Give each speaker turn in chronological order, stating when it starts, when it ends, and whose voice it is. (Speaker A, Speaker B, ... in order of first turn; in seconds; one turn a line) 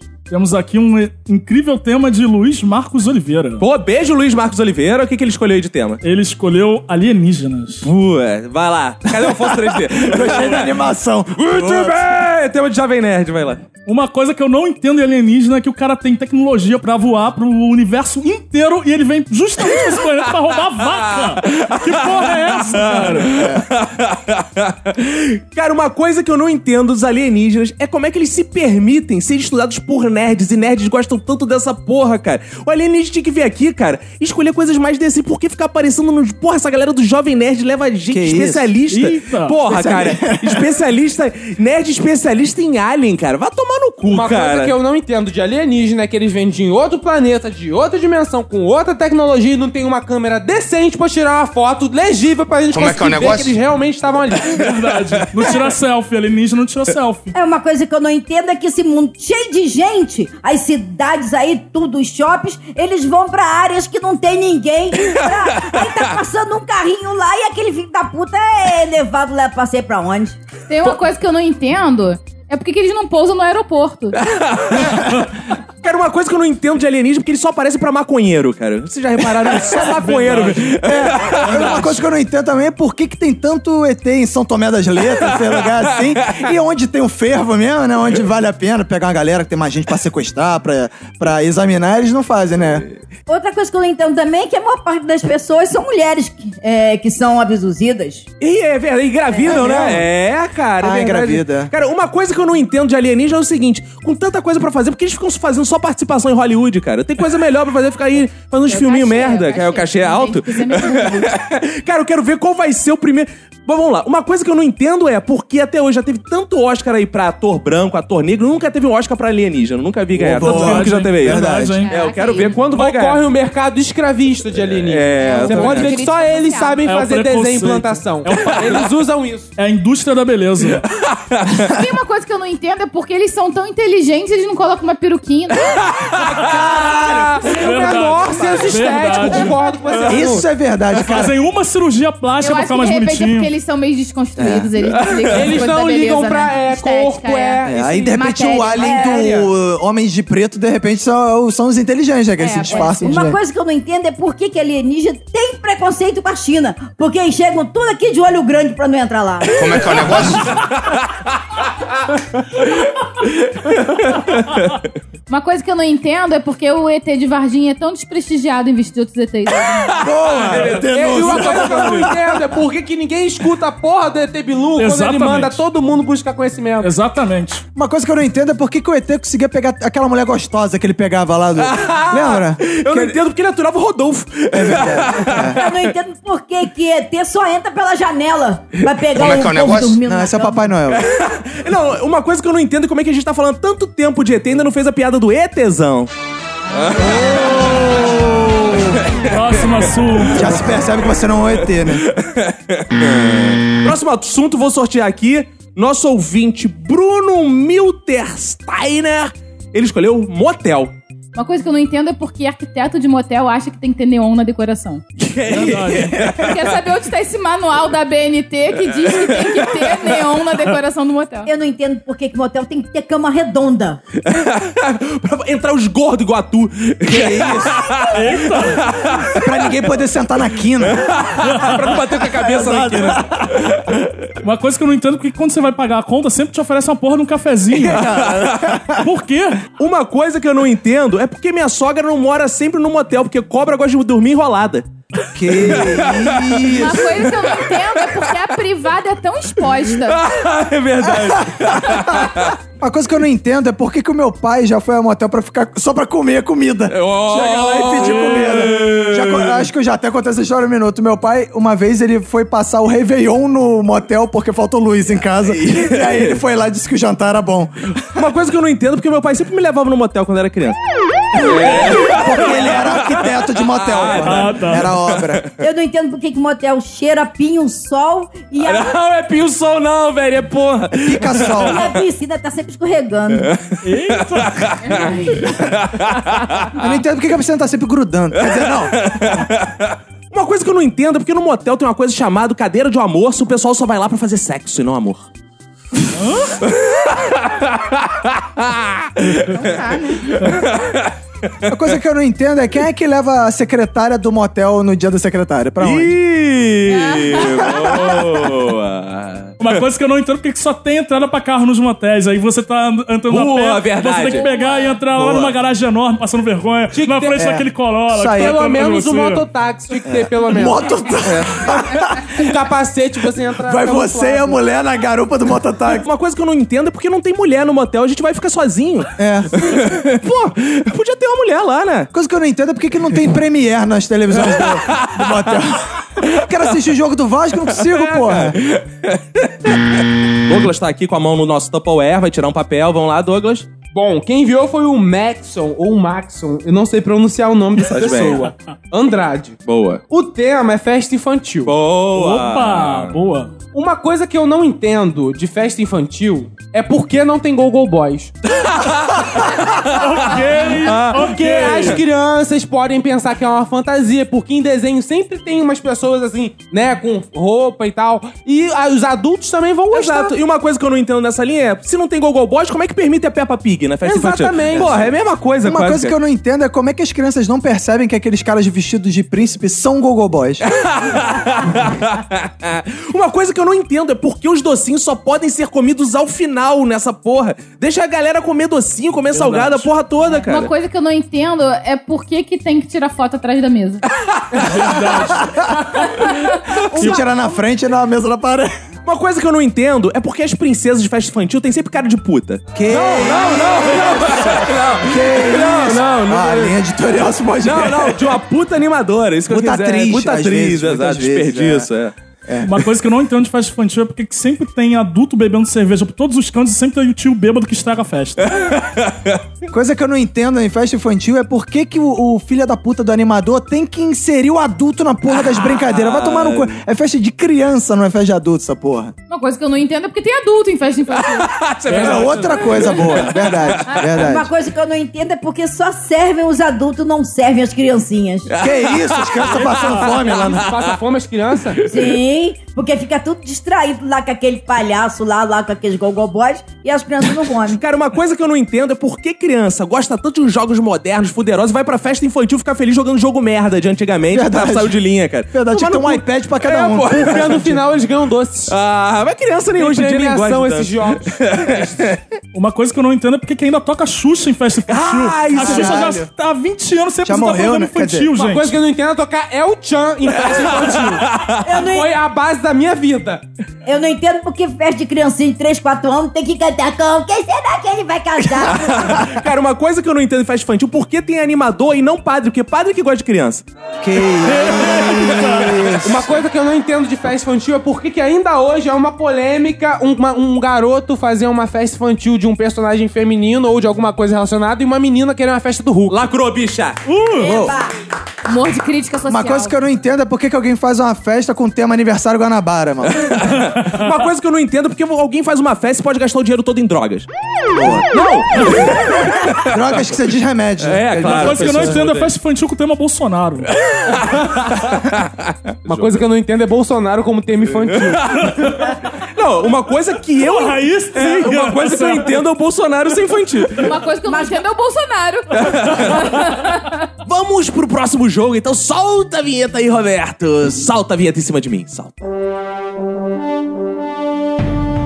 Speaker A: 0.3-3.6
Speaker B: 3.6-6.0
Speaker A: 6.0-7.9
Speaker B: 7.8-10.7
Speaker C: 9.2-12.1
Speaker B: 11.3-13.7
Speaker A: 13.8-23.4
Speaker B: 21.5-44.8
Speaker C: 23.3-23.6
Speaker C: 38.1-38.7
Speaker A: 38.9-39.6
Speaker C: 39.6-40.7
Speaker D: 44.0-54.6
Speaker E: 52.7-53.6
Speaker A: 54.5-57.3
Speaker F: 57.3-70.4
Speaker G: 70.7-74.2
Speaker B: 74.3-75.1
Speaker B: 75.8-81.8
Speaker A: 79.7-81.8
Speaker C: 80.8-92.8
Speaker B: 85.4-86.4
Speaker F: 93.3-98.2
Speaker B: 98.4-123.2
Speaker F: 99.3-99.9
Speaker C: 99.4-100.1
Speaker C: 100.8-101.7
Speaker G: 108.7-111.3
Speaker A: 120.2-121.9
Speaker C: 120.3-121.8
Speaker G: 121.8-122.5
Speaker D: 122.6-129.5
Speaker B: 124.6-126.0
Speaker G: 125.2-126.8
Speaker A: 126.8-128.9
Speaker A: 129.6-130.8
Speaker B: 130.9-131.7
Speaker G: 131.6-135.7
Speaker B: 135.9-136.4
Speaker C: 136.4-137.5
Speaker D: 136.6-140.5
Speaker A: 137.6-139.6
Speaker C: 140.1-141.3
Speaker A: 141.1-143.5
Speaker G: 142.4-148.9
Speaker C: 144.4-144.7
Speaker B: 145.0-145.5
Speaker D: 145.3-149.5
Speaker C: 147.6-153.4
Speaker F: 148.8-149.3
Speaker G: 152.4-153.0
Speaker F: 152.7-160.1
Speaker E: 159.5-160.5
Speaker B: 163.8-164.6
Speaker G: 165.3-170.0
Speaker C: 170.0-172.1
Speaker B: 170.0-172.1
Speaker D: 170.9-176.9
Speaker A: 174.8-175.6
Speaker A: 176.8-177.6
Speaker C: 177.8-183.2
Speaker B: 181.6-185.8
Speaker C: 184.5-185.6
Speaker F: 185.4-190.7
Speaker E: 189.1-190.0
Speaker C: 190.0-191.0
Speaker B: 190.9-196.1
Speaker B: 196.7-198.2
Speaker B: 198.7-199.2
Speaker A: 199.3-200.6
Speaker C: 200.3-202.0
Speaker B: 201.8-210.9
Speaker G: 211.3-215.0
Speaker B: 215.2-216.6
Speaker A: 215.5-216.2
Speaker C: 215.6-215.8
Speaker G: 216.4-221.5
Speaker B: 219.2-219.6
Speaker F: 221.4-224.0
Speaker B: 224.2-229.3
Speaker C: 227.1-228.0
Speaker A: 228.1-228.9
Speaker C: 229.3-231.2
Speaker B: 230.9-233.8
Speaker A: 231.5-231.8
Speaker C: 232.4-233.3
Speaker A: 234.4-238.2
Speaker C: 237.7-239.0
Speaker B: 238.0-238.8
Speaker A: 239.0-239.6
Speaker B: 239.8-244.9
Speaker C: 245.3-247.3
Speaker B: 245.5-248.0
Speaker G: 246.7-250.2
Speaker B: 250.0-252.5
Speaker C: 251.1-267.7
Speaker B: 256.9-259.6
Speaker A: 258.0-258.6
Speaker B: 265.4-266.4
Speaker B: 268.1-270.8
Speaker B: 271.3-275.5
Speaker C: 271.5-275.4
Speaker A: 271.5-272.2
Speaker A: 274.1-274.9
Speaker F: 275.6-278.9
Speaker B: 278.6-281.9
Speaker C: 281.0-281.8
Speaker F: 281.6-283.5
Speaker B: 283.4-286.7
Speaker A: 283.8-285.1
Speaker G: 284.9-285.2
Speaker C: 286.8-289.1
Speaker B: 288.4-295.2
Speaker B: 296.6-301.1
Speaker G: 299.5-300.4
Speaker C: 301.7-306.1
Speaker B: 305.8-309.8
Speaker G: 306.9-307.8
Speaker A: 309.6-319.4
Speaker B: 313.3-314.4
Speaker G: 314.3-315.0
Speaker C: 315.1-315.6
Speaker D: 316.9-317.6
Speaker C: 317.4-318.6
Speaker D: 318.2-320.9
Speaker C: 320.0-322.4
Speaker B: 321.2-321.7
Speaker D: 322.3-324.6
Speaker C: 323.6-326.1
Speaker B: 325.9-332.1
Speaker C: 329.2-329.6
Speaker C: 332.1-338.6
Speaker B: 334.6-335.2
Speaker B: 337.7-343.7
Speaker D: 343.9-349.6
Speaker B: 347.8-348.5
Speaker B: 349.6-350.0
Speaker D: 350.1-351.7
Speaker B: 351.6-353.1
Speaker A: 352.1-353.5
Speaker D: 353.7-358.3
Speaker B: 358.7-359.2
Speaker B: 359.8-360.1
Speaker A: 359.9-362.0
Speaker B: 360.8-362.0
Speaker D: 361.1-370.4
Speaker B: 369.9-376.1
Speaker D: 374.0-375.1
Speaker C: 375.6-380.6
Speaker B: 380.6-390.7
Speaker A: 389.3-389.9
Speaker G: 390.5-394.0
Speaker B: 394.2-394.7
Speaker A: 394.7-396.0
Speaker F: 396.9-397.2
Speaker C: 396.9-398.7
Speaker B: 399.1-406.8
Speaker C: 402.7-408.2
Speaker B: 407.6-412.1
Speaker C: 409.5-411.9
Speaker C: 412.4-412.8
Speaker A: 412.6-418.5
Speaker B: 418.6-419.4
Speaker C: 419.7-429.1
Speaker B: 425.4-426.8
Speaker G: 429.3-431.5
Speaker B: 431.4-434.0
Speaker A: 431.9-433.0
Speaker C: 431.9-434.5
Speaker F: 434.1-438.5
Speaker B: 438.5-441.0
Speaker C: 438.6-440.6
Speaker D: 440.4-441.8
Speaker F: 441.9-447.8
Speaker B: 447.7-457.8
Speaker C: 454.3-455.0
Speaker C: 455.5-457.6
Speaker D: 456.7-458.7
Speaker B: 458.7-462.2
Speaker D: 459.8-462.1
Speaker A: 462.5-468.8
Speaker B: 464.9-466.1
Speaker C: 465.5-466.3
Speaker C: 467.2-468.3
Speaker D: 468.4-471.2
Speaker B: 470.5-471.6
Speaker F: 471.6-472.1
Speaker D: 471.8-473.4
Speaker F: 473.8-478.8
Speaker C: 478.6-479.2
Speaker B: 478.8-483.6
Speaker C: 484.0-486.2
Speaker A: 484.5-485.8
Speaker D: 486.0-496.2
Speaker B: 496.1-497.0
Speaker A: 497.1-497.6
Speaker F: 497.4-497.9
Speaker C: 497.4-497.7
Speaker G: 498.4-499.7
Speaker C: 499.3-503.3
Speaker B: 503.1-507.3
Speaker C: 507.7-508.1
Speaker B: 508.1-509.7
Speaker C: 509.6-512.1
Speaker B: 510.8-512.3
Speaker A: 511.2-513.7
Speaker B: 513.9-516.2
Speaker D: 515.9-518.4
Speaker B: 517.9-518.7
Speaker B: 519.4-523.9
Speaker A: 520.4-522.3
Speaker G: 523.8-527.0
Speaker F: 524.2-524.6
Speaker B: 525.5-526.2
Speaker B: 527.2-532.1